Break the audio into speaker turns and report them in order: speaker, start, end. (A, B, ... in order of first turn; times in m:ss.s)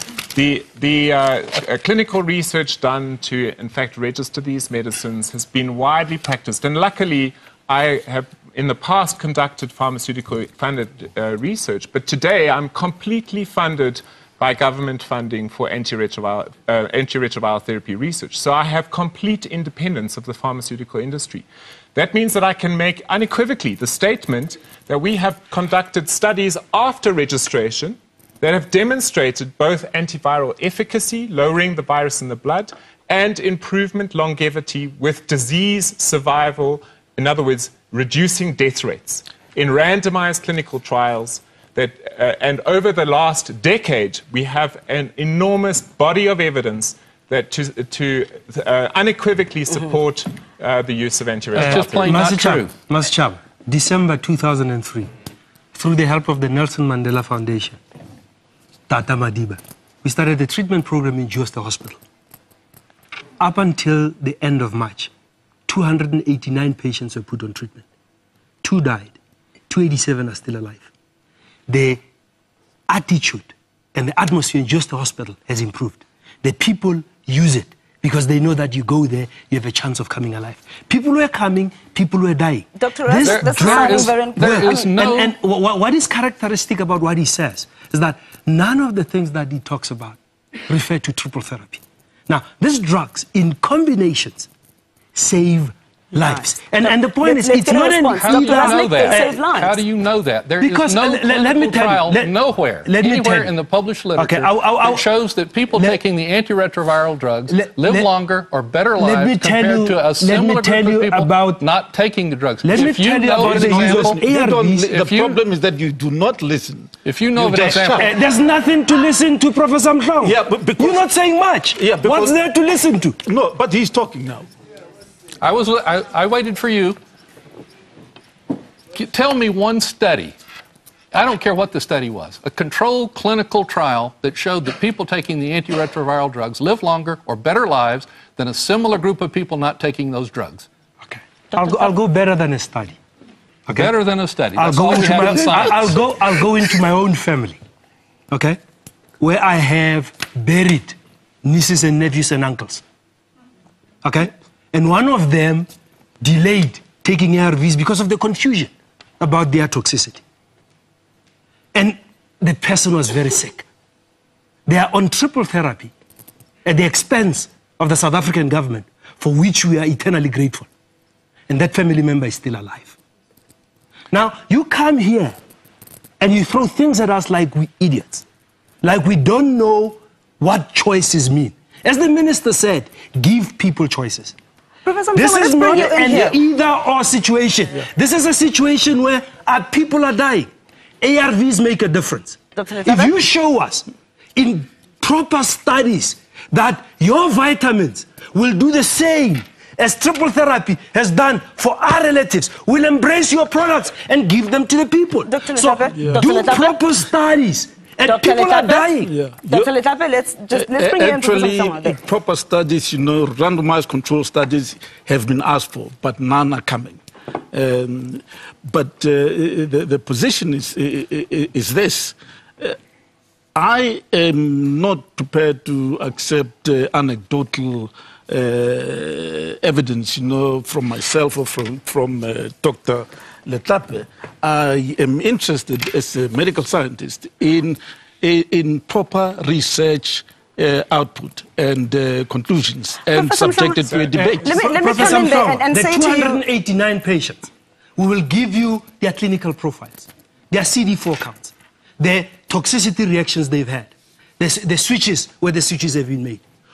0:00.3-0:52.3 A
0:51.5-0:55.1 B
0:51.6-0:52.7 C
0:55.7-0:57.8 B
0:58.9-1:02.0 B
1:03.4-1:05.1 B
1:05.7-1:07.8 B
1:08.6-1:09.1 B
1:09.7-1:10.9 B
1:11.7-1:12.0 B
1:12.9-1:34.5 B
1:22.8-1:24.9 D
1:23.2-1:25.3 C
1:35.1-1:39.3 B
1:36.1-1:39.8 D
1:38.1-1:54.2 C
1:40.6-1:42.3 B
1:42.8-1:43.5 B
1:44.2-1:45.1 B
1:45.7-1:46.0 B
1:47.5-1:48.1 B
1:49.0-1:51.6 B
1:52.6-1:54.9 B
1:53.4-1:58.2 E
1:54.8-1:55.4 C
1:57.0-1:58.1 C
1:58.0-2:03.2 B
2:00.2-2:01.1 E
2:01.8-2:02.4 E
2:03.2-2:04.5 E
2:05.4-2:07.0 C
2:08.9-2:10.4 C
2:11.1-2:20.7 C
2:21.0-2:23.0 B
2:21.6-2:21.9 D
2:23.6-2:24.0 B
2:23.7-2:26.0 C
2:24.5-2:27.6 B
2:28.3-2:28.6 B
2:29.2-2:32.8 B
2:34.0-2:35.7 B
2:36.2-2:40.2 B
2:41.7-2:43.6 B
2:44.7-2:45.9 B
2:46.6-2:50.7 B
2:51.5-2:53.0 B
2:54.1-2:55.4 B
2:56.2-2:58.2 B
2:58.8-3:04.3 B
3:04.8-3:06.4 D
3:05.1-3:10.5 B
3:11.0-3:29.1 B
3:12.6-3:13.1 D
3:25.3-3:26.8 D
3:25.9-3:26.3 E
3:28.1-3:28.9 D
3:29.0-3:29.7 E
3:29.5-3:32.0 D
3:30.5-3:42.8 E
3:43.6-4:05.0 E
4:03.1-4:06.4 D
4:04.2-4:16.4 B